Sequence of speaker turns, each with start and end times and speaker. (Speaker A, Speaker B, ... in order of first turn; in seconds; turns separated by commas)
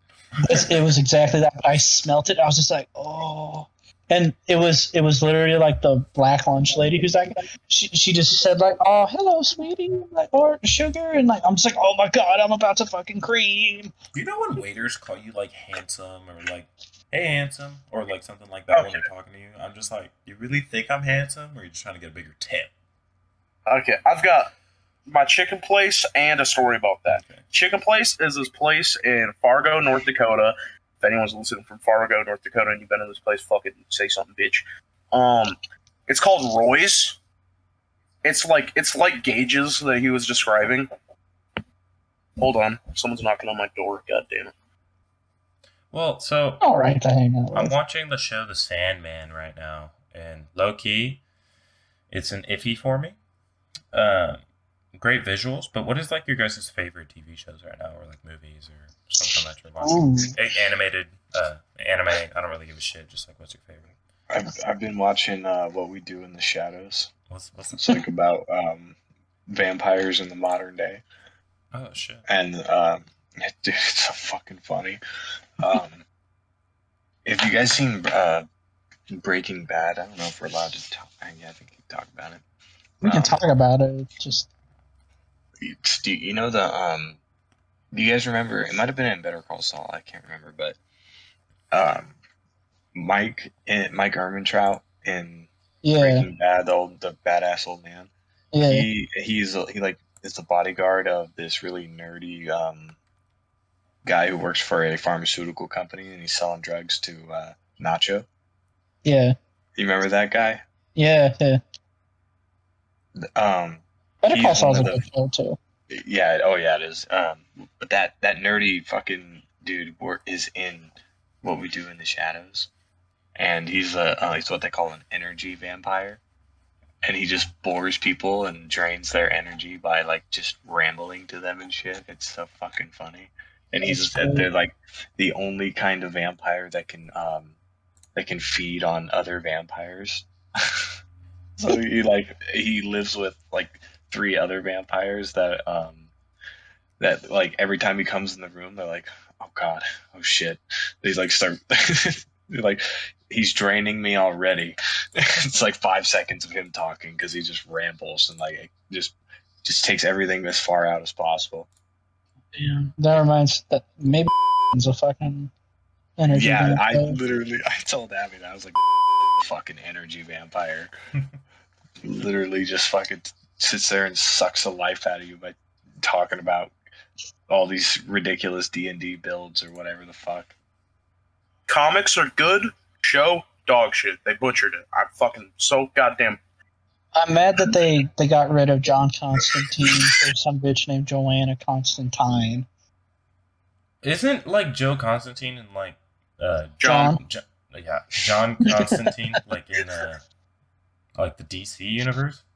Speaker A: 0.4-13.9, Speaker B: 0.5-0.8, Speaker B: 14.1-22.7, Speaker C: 18.7-19.1, Speaker C: 23.7-24.5, Speaker C: 25.1-35.6, Speaker B: 27.1-27.4, Speaker C: 36.1-37.2, Speaker C: 38.2-40.9, Speaker C: 42.4-44.5, Speaker B: 45.9-46.6, Speaker A: 46.6-47.8, Speaker B: 47.5-51.2, Speaker B: 52.1-53.2, Speaker B: 53.9-54.4, Speaker B: 55.0-64.0, Speaker A: 59.8-60.4, Speaker D: 64.3-67.1, Speaker B: 67.3-67.9, Speaker D: 67.7-69.0, Speaker D: 69.5-71.0, Speaker B: 71.7-72.2, Speaker D: 72.3-75.0, Speaker D: 75.6-76.0, Speaker D: 77.2-78.5, Speaker D: 79.1-82.4, Speaker D: 83.0-83.4, Speaker A: 83.0-84.5, Speaker D: 85.6-87.2, Speaker D: 87.9-90.8, Speaker D: 91.7-92.2, Speaker D: 92.9-98.1, Speaker A: 95.8-96.3, Speaker A: 98.5-98.9, Speaker D: 98.7-103.0, Speaker D: 104.0-108.3, Speaker A: 109.0-109.4, Speaker D: 109.8-110.6, Speaker A: 111.0-111.6, Speaker D: 113.2-115.1, Speaker A: 114.2-115.6, Speaker D: 115.9-122.7, Speaker D: 123.4-126.2, Speaker D: 127.0-137.6, Speaker A: 133.8-134.5, Speaker D: 138.2-140.9, Speaker D: 141.6-146.1, Speaker D: 147.0-161.7, Speaker A: 162.6-165.5, Speaker A: 166.2-167.2, Speaker D: 166.3-168.8, Speaker D: 169.3-170.9, Speaker D: 172.0-176.8, Speaker D: 177.5-180.5, Speaker C: 181.7-186.4, Speaker A: 187.2-192.7, Speaker B: 194.0-200.2, Speaker C: 196.8-197.1, Speaker A: 196.8-197.2, Speaker A: 198.7-199.0, Speaker B: 201.2-202.4